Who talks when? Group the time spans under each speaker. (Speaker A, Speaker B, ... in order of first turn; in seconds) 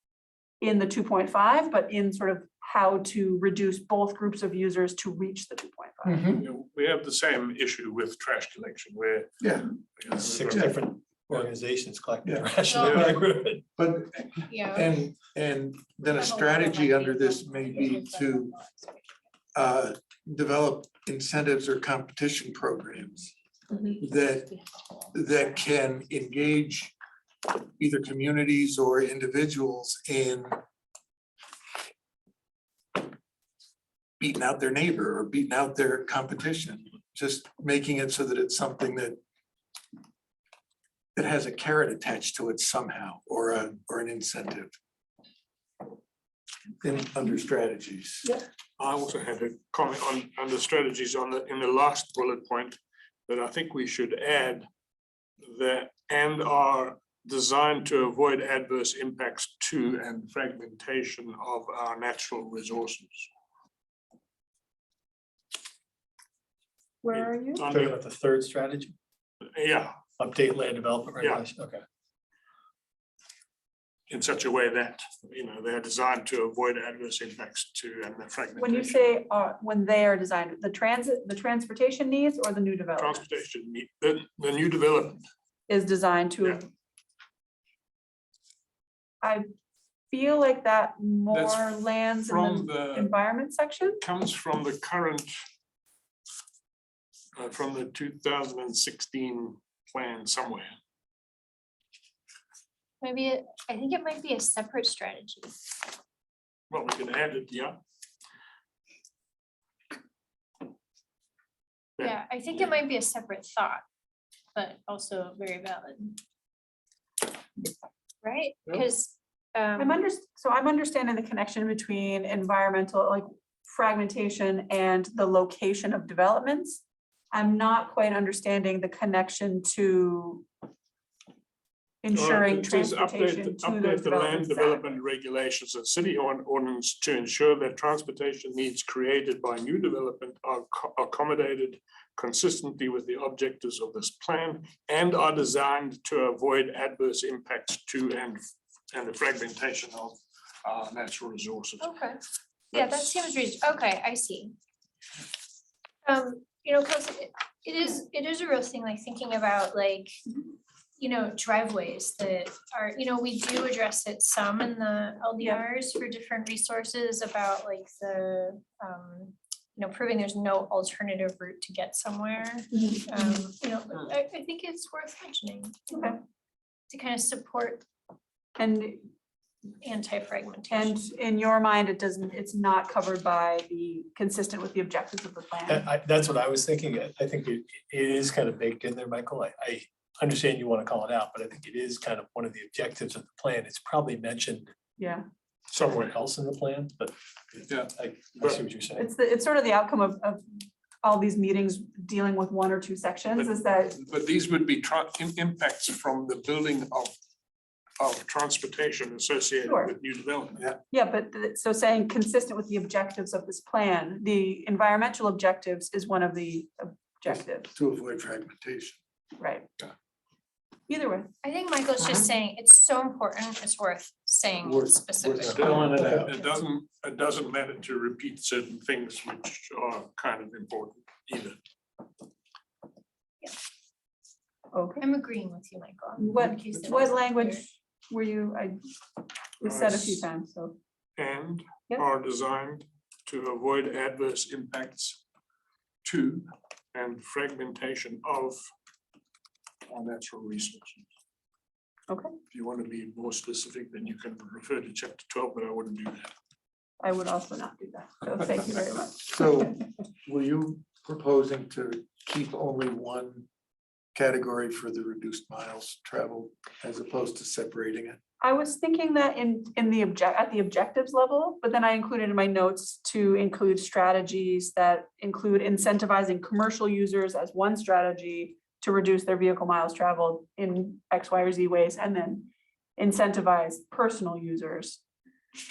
Speaker A: 0.6-6.3, 67.0-67.7, 78.6-83.2, 85.7-86.6, 90.1-94.0, 119.8-130.5, 132.0-135.0, 172.8-173.1, 175.9-176.2, 178.6-179.1, 180.7-185.9, 195.0-195.2, 198.9-204.0, 209.6-209.9, 210.9-217.7, 219.4-219.7, 220.9-221.3, 234.7-235.0, 236.2-238.8, 239.6-240.8, 252.1-252.3, 257.0-259.2, 268.4-285.0
Speaker B: 6.0-6.4, 9.4-10.8, 12.2-13.2, 13.7-18.5, 19.5-23.3, 24.0-24.6, 25.1-26.9, 27.6-30.6, 34.2-39.2, 41.1-44.7, 46.8-48.3, 217.3-219.0, 224.6-226.4, 259.1-263.5, 264.1-268.2
Speaker C: 6.3-9.4, 10.0-10.7, 12.7-13.1, 48.8-54.7, 55.4-63.3, 67.1-68.0, 69.5-70.0, 74.1-79.1, 83.0-85.2, 91.3-91.7, 92.2-93.1, 94.0-95.3, 97.3-100.7, 106.7-107.8, 132.1-151.9, 152.7-153.0, 197.7-198.6, 203.3-207.1, 208.0-210.6, 225.4-231.6, 239.6-240.2, 241.2-245.2, 246.0-248.6, 249.8-251.1, 252.5-256.3
Speaker D: 10.2-13.6, 67.6-68.9, 70.2-71.8, 185.7-194.7, 195.7-197.1, 197.7-199.1
Speaker E: 12.7-13.1, 14.5-15.0, 16.1-19.2, 23.7-25.4, 103.0-105.9, 112.0-113.8, 114.5-116.2, 118.2-120.0, 151.8-154.6, 156.0-160.2, 161.0-176.2, 176.9-177.8, 179.8-181.0, 221.4-226.1, 235.0-237.6